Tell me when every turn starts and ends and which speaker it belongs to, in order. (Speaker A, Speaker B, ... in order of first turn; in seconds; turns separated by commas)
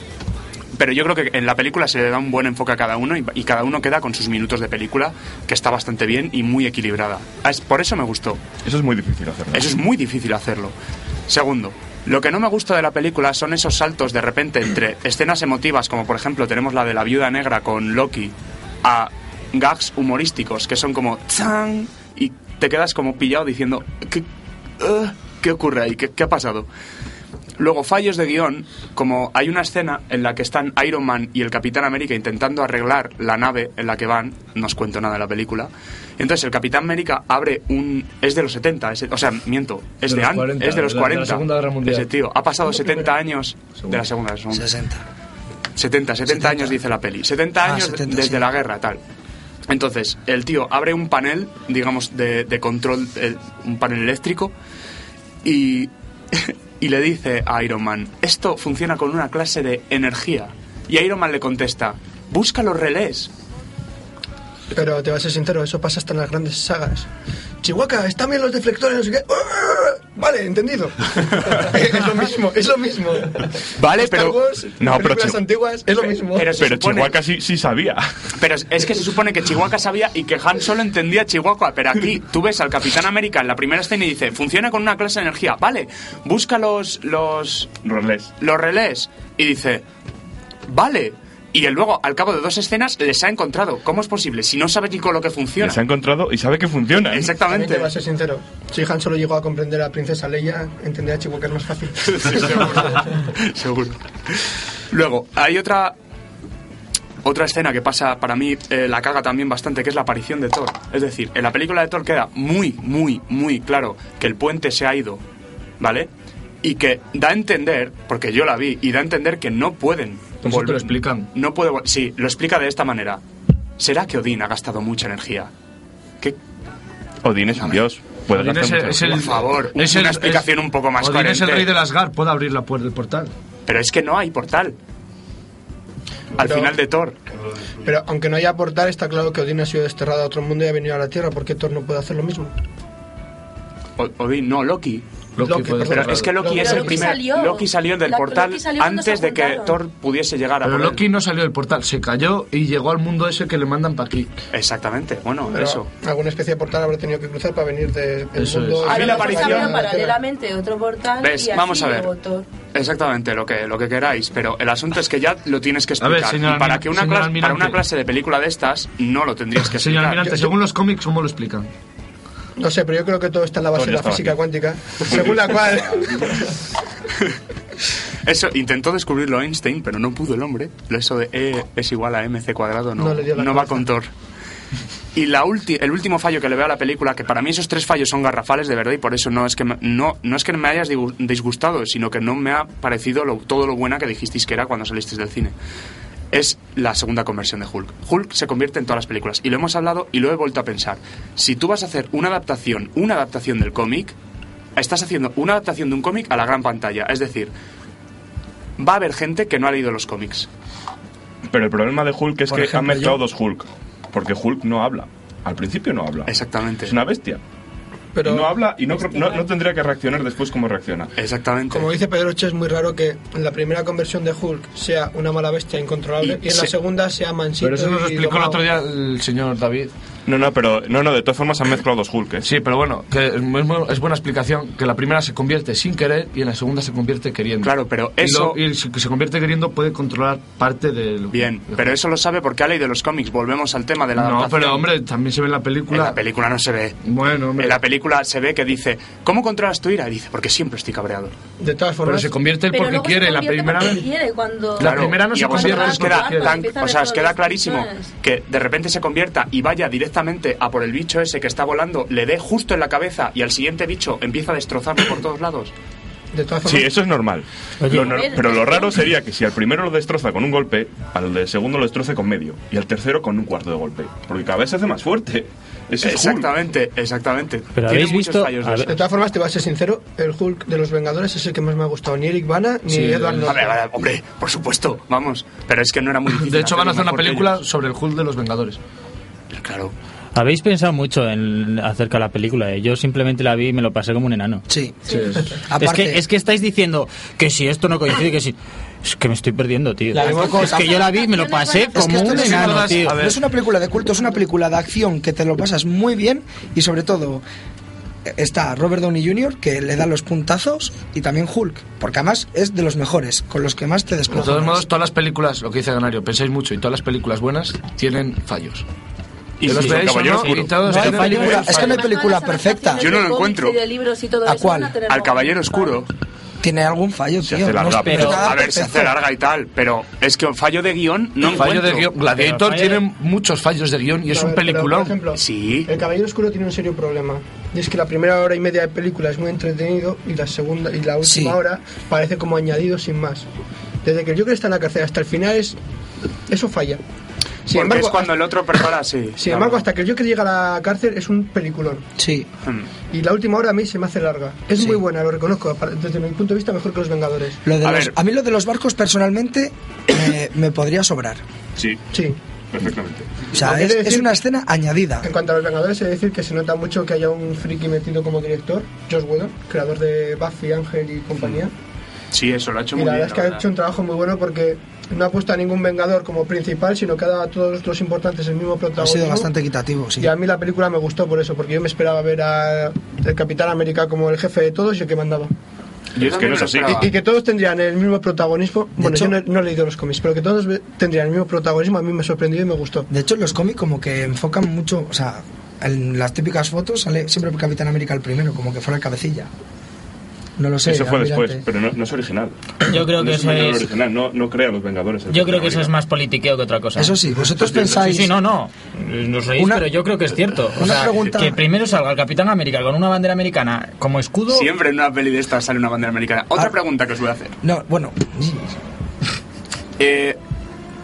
Speaker A: 0.8-8.4, Speaker B: 8.6-9.7, Speaker A: 9.5-10.7, Speaker A: 11.3-24.2, Speaker A: 24.8-26.7, Speaker A: 27.6-44.7, Speaker C: 40.0-42.1, Speaker D: 42.7-43.1, Speaker E: 44.5-45.0, Speaker A: 45.8-49.0, Speaker E: 46.3-46.8, Speaker E: 47.6-48.5, Speaker A: 49.7-54.5, Speaker A: 55.4-63.3, Speaker D: 64.7-67.1, Speaker D: 67.6-76.6, Speaker A: 73.8-74.4, Speaker B: 74.8-75.4, Speaker A: 76.0-77.2, Speaker B: 76.6-78.1, Speaker A: 78.4-87.8, Speaker B: 87.8-88.3, Speaker A: 88.4-89.8, Speaker A: 90.7-95.8, Speaker B: 95.6-97.3, Speaker A: 97.1-97.9, Speaker D: 97.4-103.0, Speaker A: 102.1-104.4, Speaker A: 104.9-106.0, Speaker A: 107.2-115.2, Speaker A: 115.8-116.1, Speaker A: 116.6-123.2, Speaker C: 120.4-121.3, Speaker A: 123.8-125.5, Speaker B: 127.2-129.3, Speaker C: 128.3-133.3, Speaker A: 129.1-131.7, Speaker A: 133.7-134.8, Speaker A: 136.4-137.2, Speaker D: 136.4-136.7, Speaker D: 137.8-142.5, Speaker A: 144.0-145.0, Speaker C: 145.4-146.5, Speaker D: 145.4-147.1, Speaker A: 145.8-151.0, Speaker F: 146.6-149.8, Speaker C: 150.6-154.3, Speaker A: 154.5-155.9, Speaker D: 155.5-160.2, Speaker C: 158.4-158.9, Speaker A: 158.8-159.8, Speaker F: 158.9-162.5, Speaker A: 161.2-162.1, Speaker A: 162.7-170.5, Speaker C: 166.0-167.8, Speaker C: 169.8-171.7, Speaker D: 172.6-176.5, Speaker B: 173.8-174.4, Speaker B: 175.1-176.1, Speaker A: 178.2-184.1, Speaker D: 183.0-183.9, Speaker A: 185.2-195.5, Speaker A: 196.3-204.2, Speaker A: 204.8-207.5, Speaker A: 208.8-210.5, Speaker B: 211.5-216.3, Speaker E: 212.5-213.2, Speaker A: 216.3-217.0, Speaker B: 216.8-217.4, Speaker D: 218.2-219.4, Speaker B: 218.2-221.1, Speaker A: 221.2-221.9, Speaker D: 221.7-228.6, Speaker A: 226.2-226.7, Speaker C: 227.6-229.9, Speaker B: 230.3-232.5, Speaker C: 232.4-241.9, Speaker A: 237.6-238.6, Speaker A: 241.3-244.9, Speaker C: 244.2-246.2, Speaker A: 245.9-247.0, Speaker C: 247.0-247.8, Speaker A: 247.6-251.3, Speaker D: 251.6-252.3, Speaker C: 252.0-254.1, Speaker F: 252.7-258.1, Speaker C: 254.8-256.6, Speaker A: 254.8-265.7, Speaker D: 266.3-266.9, Speaker B: 266.6-276.5, Speaker G: 267.8-268.1, Speaker F: 268.0-269.0, Speaker A: 276.0-279.0, Speaker G: 277.8-278.9, Speaker D: 278.9-283.8, Speaker C: 282.9-283.5, Speaker A: 283.4-287.6, Speaker C: 286.4-288.8, Speaker A: 289.5-289.9, Speaker G: 290.4-294.6, Speaker E: 294.7-295.0, Speaker C: 295.1-295.5, Speaker E: 295.6-296.2, Speaker G: 295.8-303.2, Speaker E: 300.1-301.2, Speaker F: 300.2-302.5, Speaker E: 301.9-307.4, Speaker C: 302.3-303.4, Speaker E: 308.2-314.8, Speaker C: 314.4-318.9, Speaker B: 319.6-320.9, Speaker C: 319.6-322.0, Speaker G: 319.7-320.1, Speaker E: 320.8-323.1, Speaker G: 320.9-321.7, Speaker F: 321.6-326.0, Speaker A: 323.0-323.8, Speaker E: 324.4-325.0, Speaker A: 325.1-326.1, Speaker E: 326.6-329.2, Speaker B: 327.4-328.5, Speaker G: 327.9-328.5, Speaker A: 328.2-332.1, Speaker C: 331.5-335.2, Speaker G: 332.4-333.0, Speaker D: 334.3-343.5, Speaker A: 335.3-335.9, Speaker E: 341.2-341.6, Speaker D: 344.0-345.8, Speaker D: 346.5-347.0, Speaker D: 347.7-348.4, Speaker A: 347.7-349.9, Speaker D: 349.4-352.1, Speaker E: 352.2-352.5, Speaker D: 353.1-357.6, Speaker E: 357.6-361.4, Speaker A: 357.8-358.1, Speaker D: 362.1-362.4, Speaker B: 362.7-363.4, Speaker E: 363.5-365.3, Speaker D: 363.5-364.3, Speaker D: 365.2-371.7, Speaker A: 372.3-373.6, Speaker D: 372.9-379.5, Speaker E: 379.0-380.3, Speaker D: 380.2-385.5, Speaker A: 386.1-387.1, Speaker B: 386.2-387.1, Speaker D: 386.9-393.1, Speaker E: 389.0-389.4, Speaker E: 393.1-399.5, Speaker E: 400.6-401.6, Speaker B: 400.9-405.9, Speaker G: 402.9-403.9, Speaker G: 405.3-407.2, Speaker E: 407.0-408.3, Speaker G: 407.7-414.7, Speaker E: 409.6-409.9, Speaker E: 410.8-411.6, Speaker A: 414.5-417.5, Speaker E: 417.6-418.8, Speaker A: 420.0-420.4